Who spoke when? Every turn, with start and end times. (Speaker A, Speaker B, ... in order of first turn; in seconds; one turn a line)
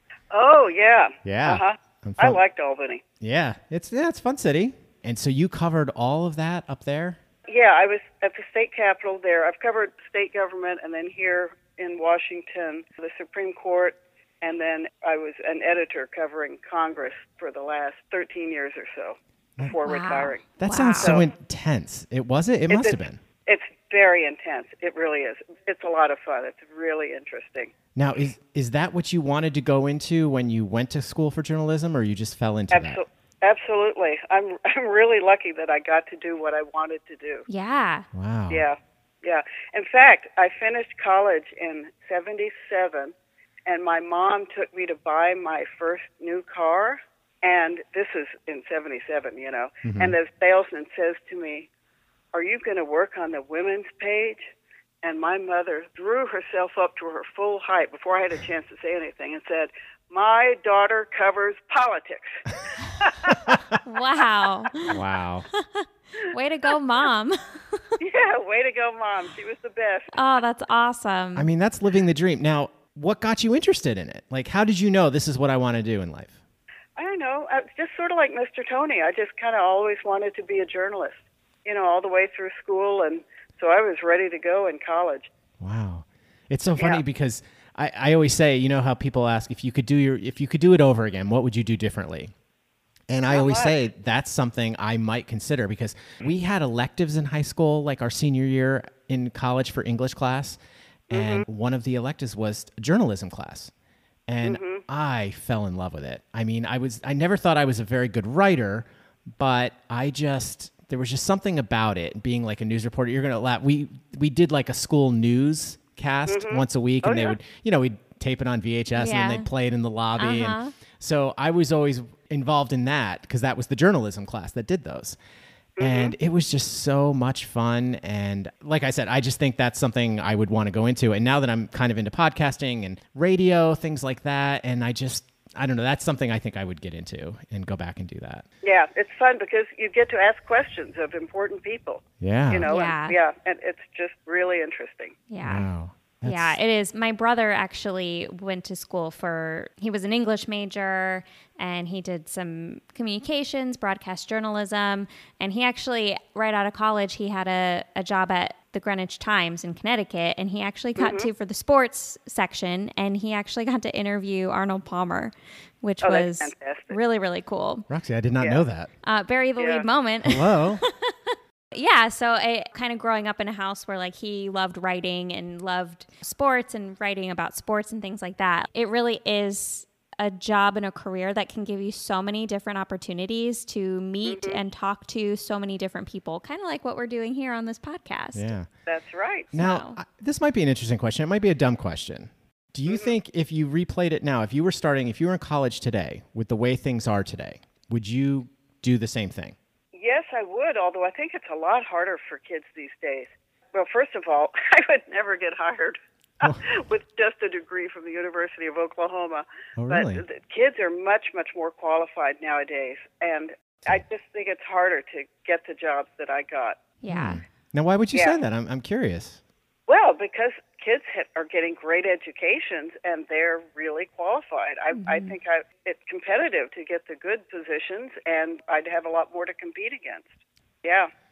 Speaker A: 0.3-3.0
Speaker B: 1.2-2.4
Speaker B: 3.2-7.2
Speaker A: 7.5-20.5
Speaker C: 19.8-21.2
Speaker B: 20.6-23.2
Speaker A: 21.0-21.2
Speaker A: 22.7-27.7
Speaker B: 27.9-33.0
Speaker A: 32.7-37.4
Speaker C: 37.5-38.1
Speaker B: 38.1-38.6
Speaker A: 38.5-43.1
Speaker A: 43.6-51.7
Speaker B: 49.8-50.1
Speaker A: 52.3-54.5
Speaker A: 55.0-63.5
Speaker C: 63.8-64.9
Speaker B: 64.9-65.5
Speaker C: 65.5-67.8
Speaker A: 68.0-70.1
Speaker C: 70.1-71.5
Speaker B: 71.3-76.3
Speaker A: 77.0-85.3
Speaker B: 85.6-92.3
Speaker A: 86.8-87.0
Speaker B: 93.1-103.7
Speaker A: 93.3-93.8
Speaker A: 101.1-101.4
Speaker B: 104.3-125.2
Speaker A: 104.4-104.8
Speaker A: 116.3-117.3
Speaker C: 119.0-119.5
Speaker C: 120.2-120.7
Speaker A: 125.8-126.1
Speaker B: 125.8-138.4
Speaker A: 138.6-145.2
Speaker B: 142.2-142.7
Speaker C: 142.7-143.2
Speaker C: 145.3-145.7
Speaker B: 145.4-146.6
Speaker C: 146.2-167.8
Speaker A: 161.0-161.3
Speaker A: 166.0-167.0
Speaker B: 167.9-168.9
Speaker C: 169.0-171.1
Speaker A: 169.6-169.8
Speaker B: 170.2-170.8
Speaker C: 171.7-188.5
Speaker A: 184.2-184.6
Speaker B: 188.3-188.7
Speaker A: 188.9-189.5
Speaker B: 189.5-199.6
Speaker C: 189.5-190.0
Speaker A: 199.9-216.8
Speaker B: 209.8-210.2
Speaker C: 217.0-217.4
Speaker B: 217.1-219.4
Speaker A: 219.9-231.1
Speaker C: 224.9-225.3